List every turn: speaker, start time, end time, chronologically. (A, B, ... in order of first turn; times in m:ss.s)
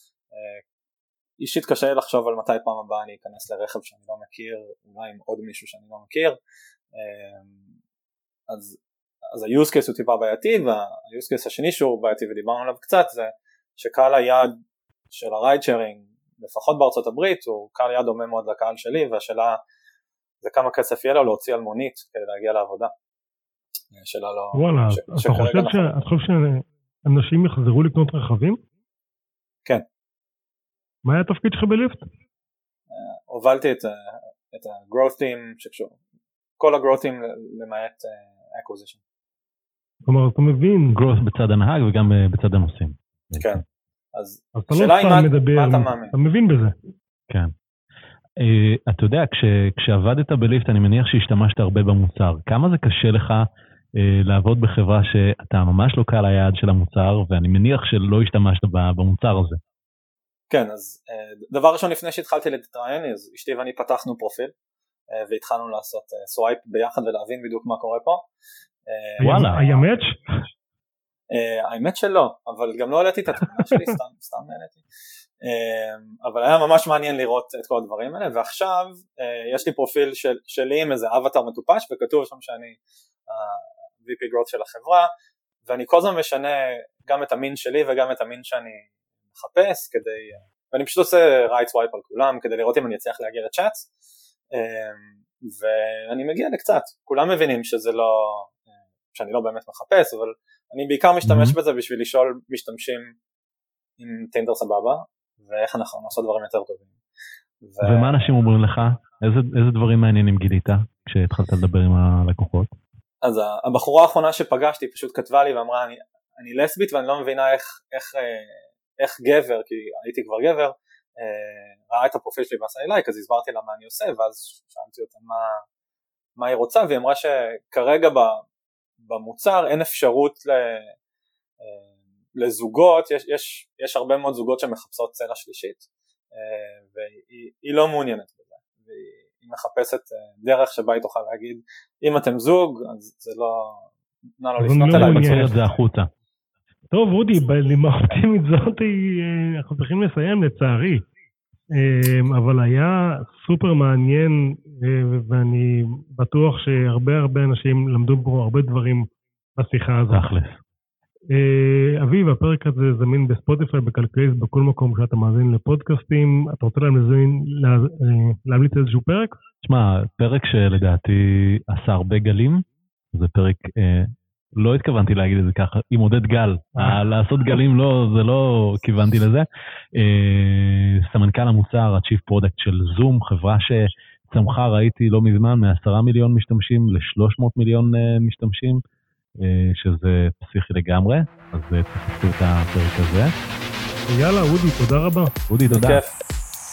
0:00.3-0:00.6 A
0:01.4-0:06.4 A
0:06.9-0:07.6 A
0:08.5-0:08.8 A
0:09.3-0:14.5 A
0:15.1-0:19.6 A
0:20.4-0:22.9 A
0:23.9-0:25.9 A
0:24.5-0:28.6 B
0:31.0-0:32.1 B
0:32.9-0:36.0 A
0:36.6-0:39.0 A
0:40.0-0:41.0 B
0:40.9-0:43.6 C
0:43.4-0:43.6 A
0:44.1-0:46.1 A
0:44.5-0:46.7 B
0:48.4-0:59.6 C
1:00.5-1:04.5 A
1:05.1-1:08.2 A
1:08.9-1:09.9 A
1:09.2-1:10.2 B
1:09.2-1:09.6 C
1:11.3-1:14.8 A
1:15.4-1:25.1 A
1:25.6-1:33.9 A
1:34.5-1:38.5 A
1:39.1-1:43.2 A
1:41.2-1:41.6 C
1:44.0-1:46.9 A
1:47.6-1:48.3 A
1:47.8-1:52.7 C
1:53.2-2:05.6 A
2:06.4-2:08.4 A
2:09.0-2:10.9 A
2:11.6-2:25.6 A
2:24.6-2:25.6 B
2:24.9-2:26.1 C
2:26.9-2:31.1 B
2:31.7-2:40.3 B
2:40.1-2:40.6 C
2:41.3-2:49.4 B
2:49.6-3:08.8 C
3:09.4-3:13.3 C
3:14.1-3:15.3 B
3:15.5-3:16.0 C
3:15.7-3:16.1 A